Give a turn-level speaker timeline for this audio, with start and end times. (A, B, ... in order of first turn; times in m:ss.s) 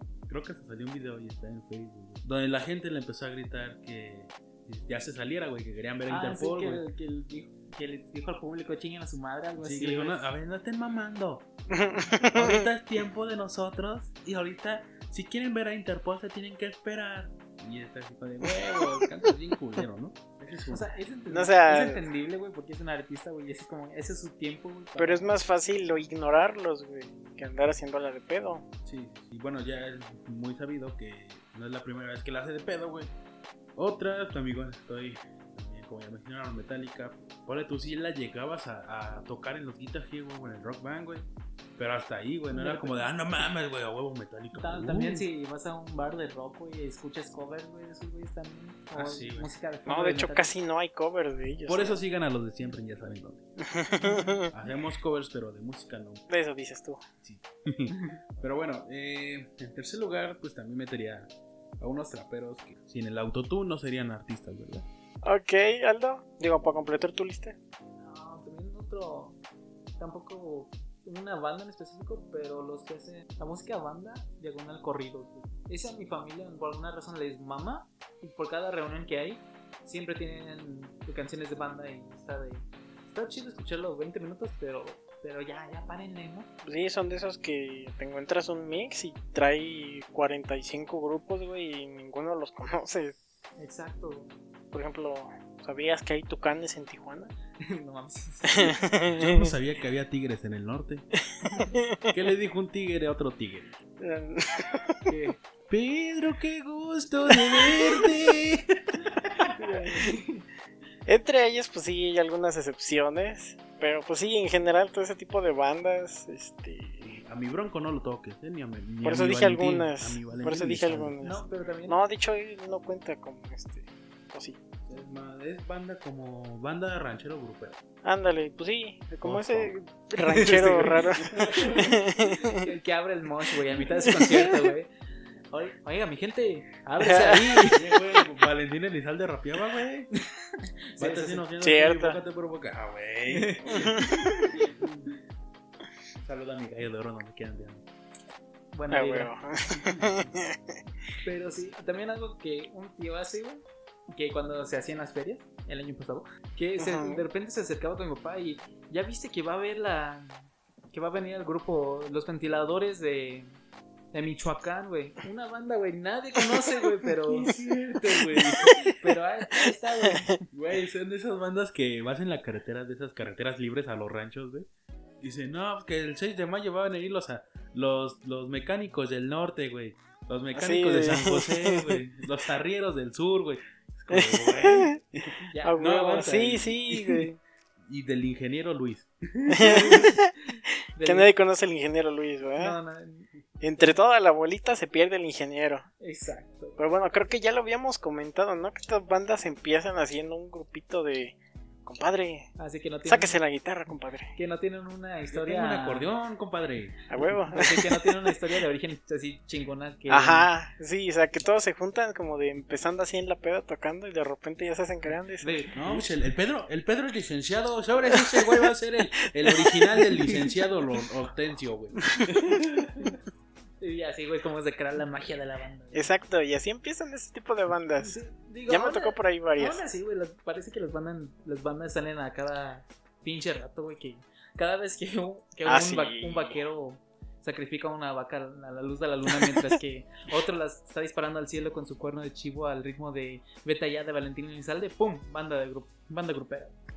0:00.3-0:06.9 A
0:06.1-0:10.3 B
0:09.6-0:11.5 A
0:11.7-0:12.7 C
0:12.3-0:20.9 A
0:20.7-0:25.3 B
0:21.3-0:22.0 C
0:25.0-0:28.6 C
0:28.8-0:33.1 A
0:33.8-0:45.2 A
0:42.5-0:43.2 B
0:44.5-0:50.5 B
0:48.9-0:49.5 A
0:49.9-0:52.0 C
0:51.7-0:53.4 A
0:53.6-0:54.5 C
0:54.1-0:54.4 B
0:54.5-0:56.2 A
0:56.3-0:57.0 C
0:57.2-1:04.9 A
1:05.2-1:07.6 C
1:08.0-1:09.4 B
1:10.0-1:26.5 B
1:26.6-1:33.2 C
1:33.6-1:34.3 B
1:34.7-1:37.3 C
1:37.6-1:38.8 B
1:38.5-1:39.5 C
1:39.1-1:41.1 A
1:41.4-1:42.1 C
1:42.1-1:43.7 A
1:44.0-1:45.1 C
1:45.1-1:45.4 B
1:45.7-1:49.5 A
1:49.5-1:50.0 C
1:49.6-1:50.4 B
1:51.1-1:57.1 C
1:57.0-2:01.1 A
1:59.0-2:04.6 C
2:01.2-2:02.0 B
2:04.8-2:07.8 A
2:08.0-2:12.6 C
2:09.2-2:09.7 A
2:10.2-2:14.9 B
2:11.2-2:12.0 A
2:14.0-2:14.5 C
2:15.5-2:18.2 B
2:17.0-2:17.6 C
2:17.6-2:20.1 A
2:20.1-2:21.4 B
2:21.0-2:25.1 A
2:21.6-2:22.2 C
2:23.3-2:23.9 B
2:23.7-2:24.5 C
2:26.2-2:27.9 A
2:28.7-2:29.3 B
2:28.9-2:30.6 C
2:31.2-2:43.5 B
2:36.8-2:37.2 C
2:44.1-2:50.4 B
2:47.2-2:48.7 A
2:48.6-2:48.9 C
2:50.5-2:54.7 A
2:55.2-3:07.2 A
3:00.6-3:02.0 C
3:04.1-3:07.4 C
3:05.5-3:06.5 B
3:07.8-3:10.0 A
3:09.5-3:10.3 C
3:09.7-3:11.3 B
3:11.0-3:12.8 C
3:12.6-3:13.3 B
3:13.6-3:15.9 C
3:16.0-3:16.8 B
3:16.8-3:22.5 C
3:22.6-3:23.4 B
3:23.1-3:24.3 C
3:24.4-3:26.1 B
3:25.3-3:27.0 A
3:27.1-3:28.4 C
3:27.5-3:30.5 B
3:30.1-3:35.6 C
3:35.4-3:36.0 B
3:35.7-3:43.2 A
3:38.1-3:38.6 C
3:39.2-3:40.0 C
3:42.1-3:42.6 C
3:43.8-3:46.1 B
3:45.9-3:49.8 C
3:48.0-4:06.7 B
3:55.6-3:56.6 C